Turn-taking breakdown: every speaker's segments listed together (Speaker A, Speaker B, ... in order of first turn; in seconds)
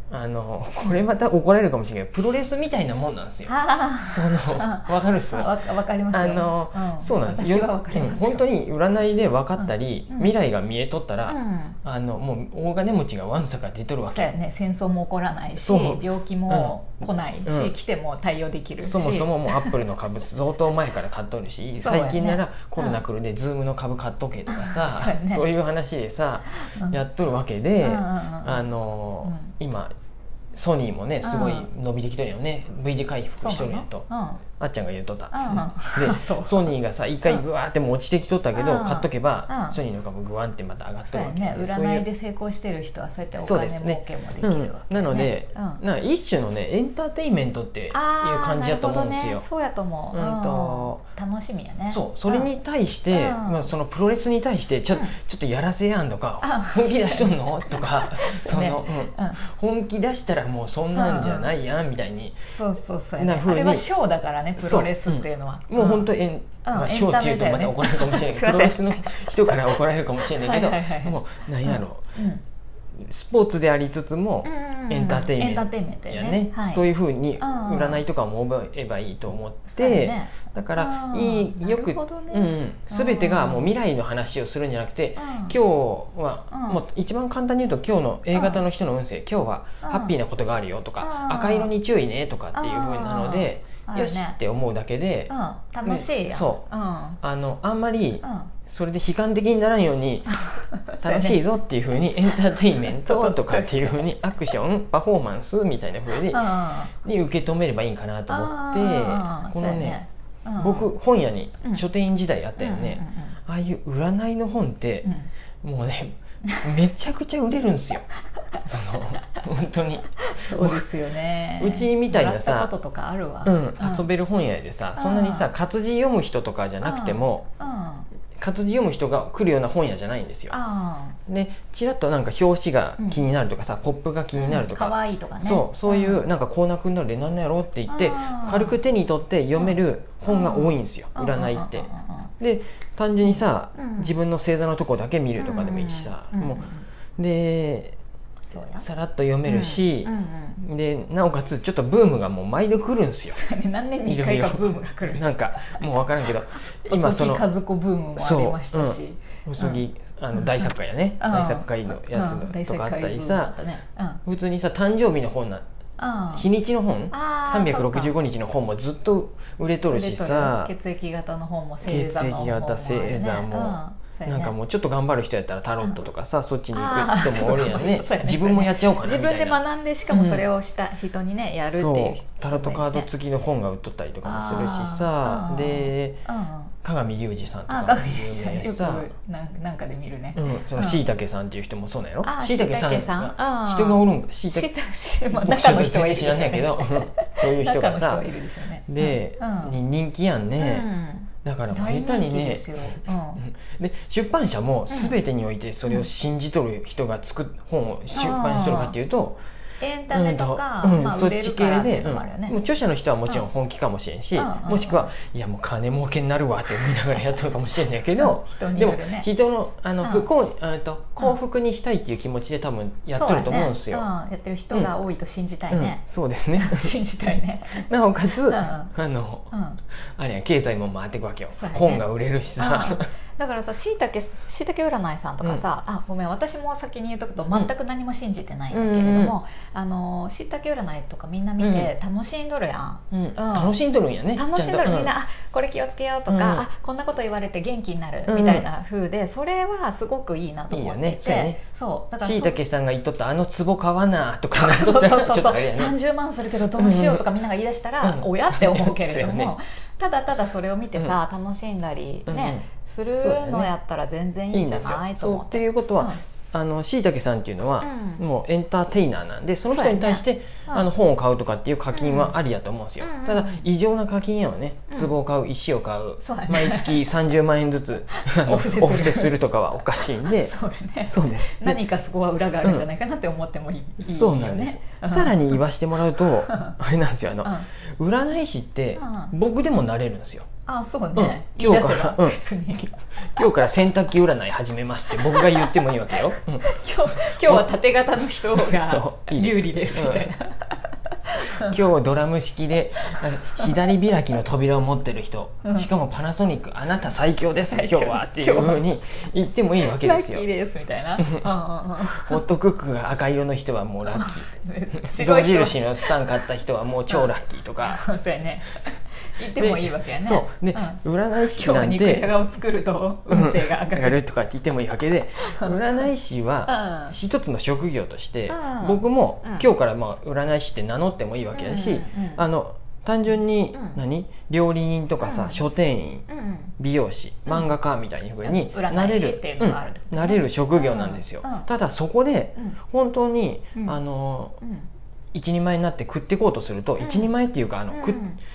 Speaker A: 0.1-14.3, 15.6-17.8, 18.8-29.9, 30.5-42.1, 43.4-49.5, 50.1-51.0, 51.9-62.5, 63.2-63.9, 64.6-72.0, 73.0-95.3, 95.8-96.6, 97.2-100.5, 101.0-110.0, 110.6-115.1, 115.6-118.1, 118.6-120.9, 121.6-122.7, 123.5-127.5, 128.4-130.6, 131.3-141.9, 142.4-146.6, 147.2-148.0, 148.8-153.4, 154.1-157.5, 158.2-163.6, 164.3-165.6, 166.3-170.7, 171.8-180.5, 181.7-186.2, 186.8-189.1, 190.3-194.7, 195.3-198.3, 198.9-200.9, 201.4-209.4, 210.1-224.1, 225.7-233.1, 238.7-239.4, 241.6-241.9, 243.1-245.1, 246.3-246.7, 248.3-248.7, 250.7-251.6, 252.2-256.0, 256.7-257.4, 258.0-259.6, 262.3-263.7, 264.5-281.9, 282.6-282.9, 284.0-290.5, 291.1-300.4, 301.6-310.5, 311.2-318.0, 319.5-322.4, 323.3-336.2, 336.8-344.6, 345.3-348.2
Speaker B: 3.5-8.5, 9.6-10.4, 11.3-11.8, 14.1-19.8, 21.8-23.0, 24.5-25.4, 26.5-27.0, 27.8-28.6, 29.2-29.5, 31.2-31.7, 33.4-34.5, 35.3-36.7, 38.5-39.8, 41.1-45.8, 47.9-52.5, 53.1-53.7, 56.4-59.4, 60.9-61.5, 62.5-72.4, 74.4-76.8, 77.4-78.0, 79.7-83.8, 85.2-85.6, 86.5-86.8, 88.3-88.7, 89.8-90.2, 91.0-91.7, 92.5-94.4, 95.3-97.2, 98.2-98.5, 100.3-101.4, 102.3-104.5, 106.1-107.0, 108.3-110.9, 112.6-113.4, 115.0-115.3, 116.4-116.8, 120.2-124.1, 125.0-125.5, 126.8-128.1, 130.5-131.2, 133.0-133.2, 134.4-136.2, 137.9-138.8, 139.6-142.3, 143.2-144.1, 145.4-146.9, 148.5-148.9, 149.4-150.6, 153.3-164.2, 166.0-166.5, 167.1-168.2, 169.9-174.6, 176.7-183.1, 184.2-186.7, 187.7-191.1, 192.2-199.8, 200.6-203.4, 204.9-205.2, 208.1-209.0, 209.8-212.6, 214.3-215.1, 218.2-219.3, 220.0-220.3, 223.1-226.0, 226.6-228.9, 229.5-229.8, 231.5-243.8, 244.3-252.6, 254.5-266.2, 267.8-268.2, 269.7-270.9, 271.9-272.4, 273.0-273.7, 276.2-277.1, 278.1-279.4, 279.9-285.6, 286.1-286.8, 287.4-287.7, 288.9-289.3, 290.6-293.0, 295.2-301.8, 303.0-303.9, 305.6-305.9, 307.7-308.9, 309.8-312.4, 314.1-316.4, 317.1-324.2, 325.4-325.8, 326.7-327.2, 328.5-329.7, 331.5-332.4, 333.7-334.0, 335.2-335.6, 336.3-336.7, 337.5-337.8, 338.4-341.7, 344.6-344.9, 347.0-347.3, 347.9-348.4